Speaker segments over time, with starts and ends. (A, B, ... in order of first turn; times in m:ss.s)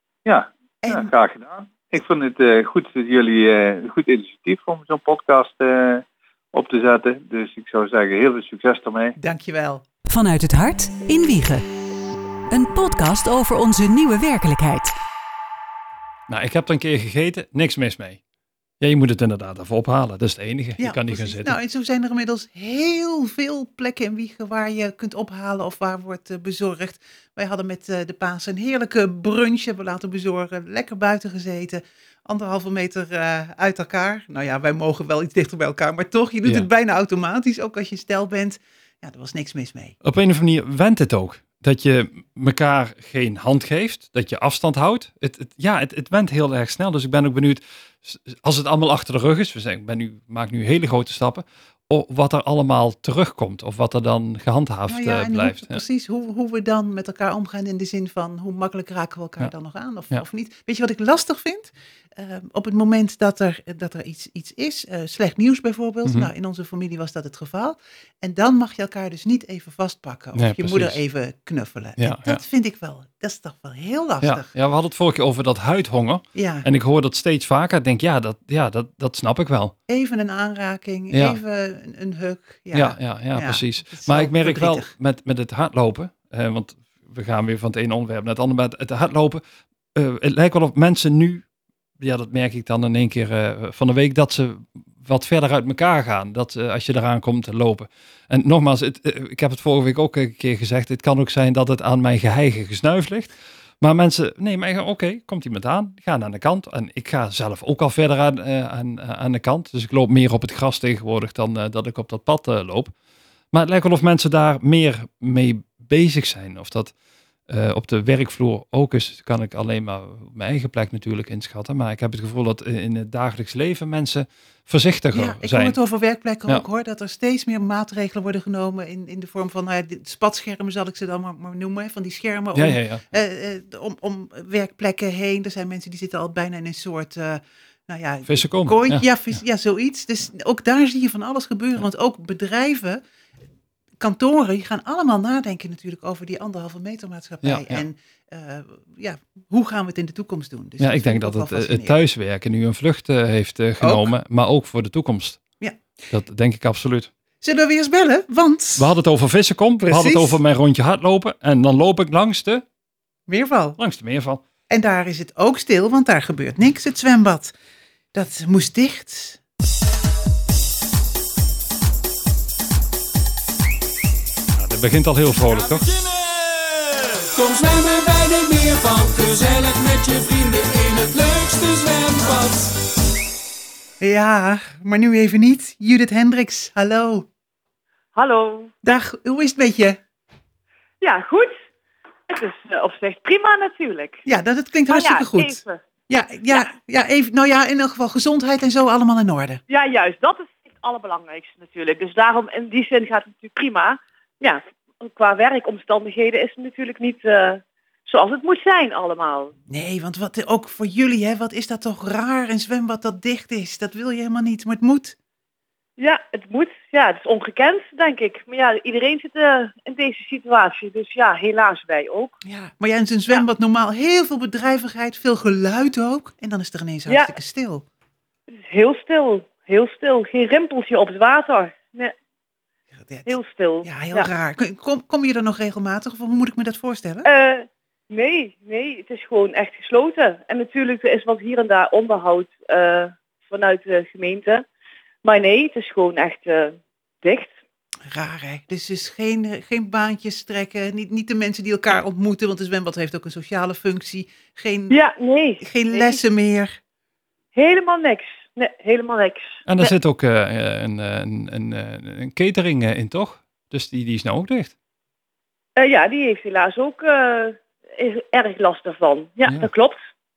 0:00.2-0:09.1 A
0:00.8-0:01.1 B
0:09.2-0:09.8 B
0:10.1-0:11.6 C
0:12.5-0:14.9 C
0:16.3-0:18.2 D
0:18.8-0:21.6 D
0:20.8-0:40.0 B
0:40.0-0:55.8 D
0:54.9-1:14.5 B
1:10.4-1:11.0 D
1:12.0-1:12.4 D
1:14.2-1:19.7 D
1:16.3-1:16.6 B
1:19.9-1:24.9 B
1:21.1-1:21.4 D
1:22.7-1:29.4 D
1:29.9-1:31.4 D
1:32.0-1:52.9 D
1:53.5-1:56.9 D
1:57.5-2:05.8 D
2:05.1-2:23.0 B
2:12.6-2:13.0 D
2:18.3-2:19.4 D
2:24.0-2:32.0 B
2:27.4-2:27.8 D
2:30.8-2:35.4 D
2:33.8-2:34.1 B
2:36.1-2:37.1 D
2:37.4-2:38.9 B
2:38.8-2:42.6 D
2:39.8-2:40.4 B
2:43.3-2:43.8 B
2:43.8-2:44.4 D
2:44.7-2:47.5 B
2:48.1-2:49.4 B
2:54.6-2:55.9 D
2:57.3-3:02.7 E
3:04.0-3:07.3 B
3:08.1-3:08.7 F
3:08.8-3:10.0 B
3:11.0-3:11.5 F
3:12.3-3:14.2 F
3:14.2-3:15.6 B
3:14.9-3:15.8 F
3:16.1-3:19.6 B
3:19.7-3:29.5 F
3:29.7-3:35.2 B
3:36.0-3:42.4 F
3:42.4-3:47.8 B
3:47.1-3:47.3 F
3:48.6-3:52.1 F
3:52.9-3:57.3 B
3:53.2-3:54.3 F
3:57.2-4:04.6 F
4:05.2-4:07.6 F
4:08.1-4:15.0 B
4:14.9-4:16.2 F
4:15.6-4:16.8 B
4:17.5-4:19.9 F
4:19.7-4:24.7 D
4:25.8-4:30.0 F
4:29.4-4:29.7 D